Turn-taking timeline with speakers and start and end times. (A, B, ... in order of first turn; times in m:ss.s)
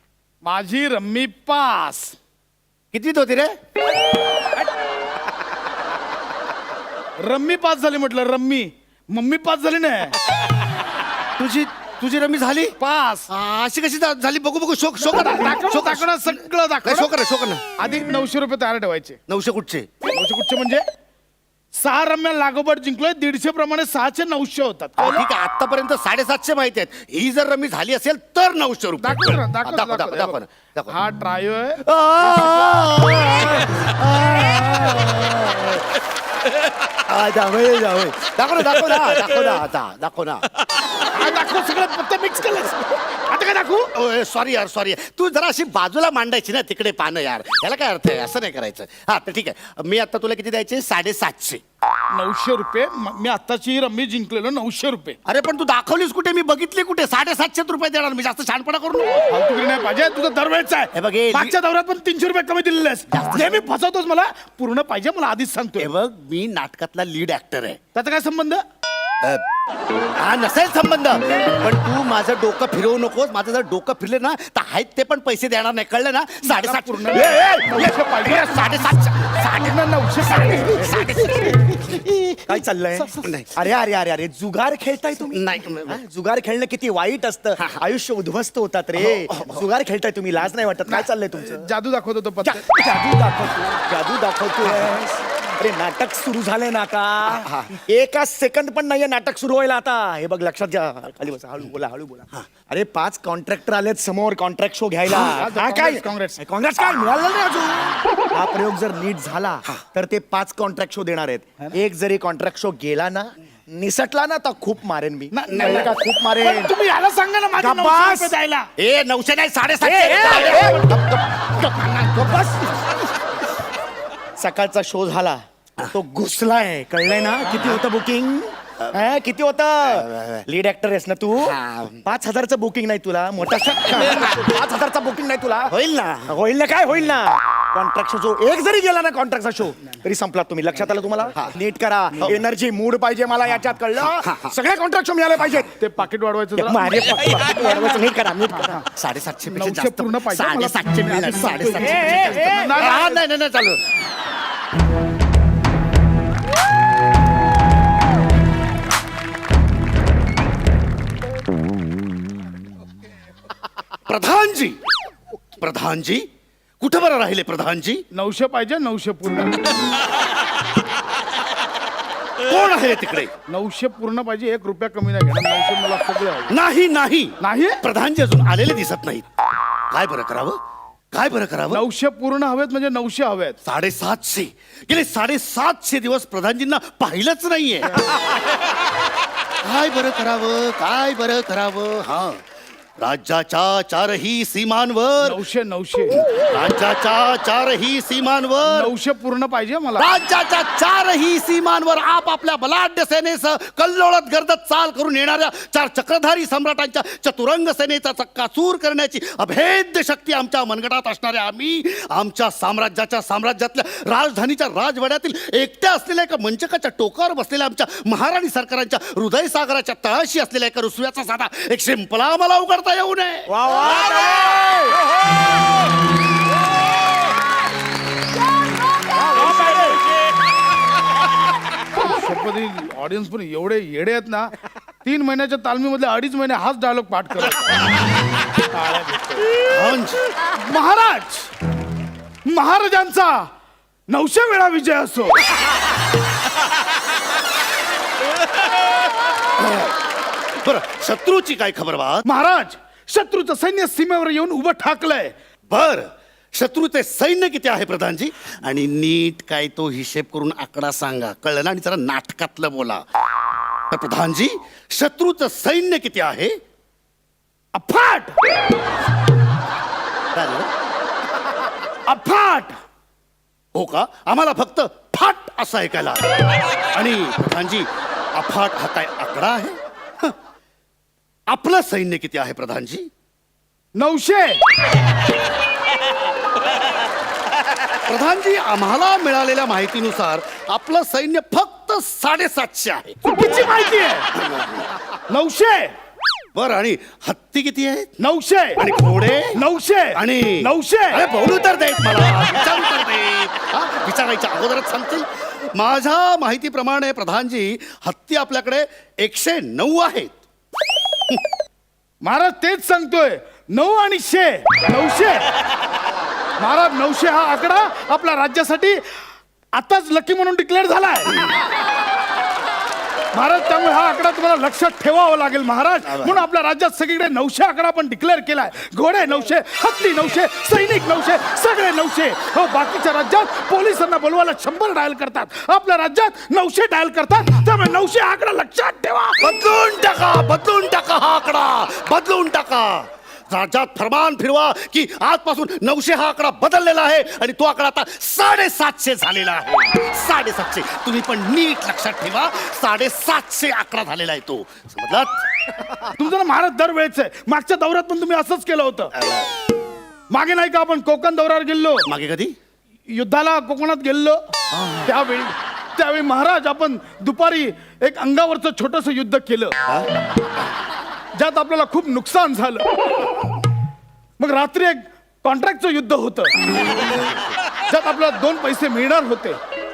0:00.4-0:02.2 A
0:02.9-0:03.5 B
0:07.2-0:10.1 A
0:11.4-0:12.8 B
0:12.8-0:13.3 A
0:13.3-0:17.6 B
0:15.0-0:17.1 A
0:17.8-0:19.2 A
0:19.3-0:19.9 B
0:20.1-0:20.8 A
0:21.8-0:25.2 A
0:25.0-0:30.9 B
0:29.0-0:31.8 A
0:31.8-0:35.8 B
0:37.1-0:40.7 B
0:41.1-0:43.9 A
0:44.0-0:51.6 B
0:52.1-0:55.2 A
0:55.3-0:59.3 B
0:59.3-1:05.9 A
1:01.0-1:01.6 B
1:03.1-1:03.6 B
1:05.8-1:07.8 B
1:07.9-1:08.6 A
1:10.2-1:22.6 B
1:16.4-1:21.0 A
1:22.5-1:31.7 C
1:23.2-1:23.6 B
1:25.3-1:26.0 B
1:27.6-1:27.8 B
1:29.0-1:29.6 B
1:30.9-1:32.6 A
1:32.4-1:56.7 C
1:34.7-1:35.0 B
1:37.3-1:37.8 B
1:45.1-1:46.4 A
1:55.3-1:58.7 A
1:55.5-1:55.9 B
1:57.6-1:58.4 C
1:58.8-2:02.8 B
1:59.8-2:00.8 C
2:00.2-2:00.8 A
2:04.4-2:15.8 C
2:07.5-2:07.8 B
2:09.9-2:10.4 B
2:11.4-2:12.0 B
2:14.0-2:14.4 B
2:15.7-2:16.4 B
2:16.3-2:25.8 C
2:24.0-2:24.6 B
2:25.8-2:27.6 A
2:26.6-2:28.8 C
2:28.9-2:33.8 B
2:29.5-2:33.2 A
2:31.8-2:32.8 C
2:44.1-2:44.8 B
2:45.6-2:46.2 B
2:46.8-2:48.0 B
2:48.1-2:49.7 A
2:52.5-2:53.3 B
2:53.5-2:56.6 A
2:56.5-2:59.3 B
2:57.4-2:57.8 A
2:59.9-3:00.6 B
3:01.1-3:01.8 B
3:01.7-3:03.6 A
3:03.6-3:08.2 B
3:09.6-3:12.4 B
3:13.0-3:15.4 B
3:15.2-3:16.3 A
3:16.2-3:18.9 B
3:18.6-3:20.1 A
3:20.0-3:44.2 B
3:43.5-3:45.0 C
3:49.3-3:50.0 C
3:52.0-3:54.5 A
3:55.0-3:57.9 A
3:58.7-3:59.5 A
3:59.7-4:00.2 B
4:00.6-4:01.5 A
4:02.5-4:03.5 A
4:04.1-4:05.4 A
4:09.6-4:09.9 B
4:10.6-4:12.3 B
4:12.2-4:15.3 A
4:15.7-4:23.0 B
4:23.9-4:26.5 B
4:27.8-4:28.4 A
4:30.3-4:30.7 B
4:32.1-4:32.8 A
4:33.8-4:40.3 B
4:41.5-4:43.1 B
4:44.0-4:44.6 A
4:48.1-4:53.2 B
4:53.2-4:54.3 A
4:54.4-4:54.8 B
4:55.3-4:55.9 A
4:56.6-4:58.1 B
4:58.2-4:58.8 A
4:58.8-4:59.6 B
4:59.5-5:01.2 A
5:00.2-5:10.4 B
5:12.2-5:15.5 A
5:16.6-5:19.0 A
5:19.7-5:21.4 A
5:23.3-5:39.5 A
5:26.1-5:26.4 B
5:39.4-5:55.4 B
5:56.1-5:59.1 A
5:59.2-5:59.5 B
6:00.3-6:02.1 A
6:02.1-6:02.5 B
6:03.1-6:04.4 A
6:04.7-6:05.1 B
6:05.0-6:09.7 A
6:11.4-6:12.8 A
6:14.4-6:16.5 A
6:17.8-6:19.6 A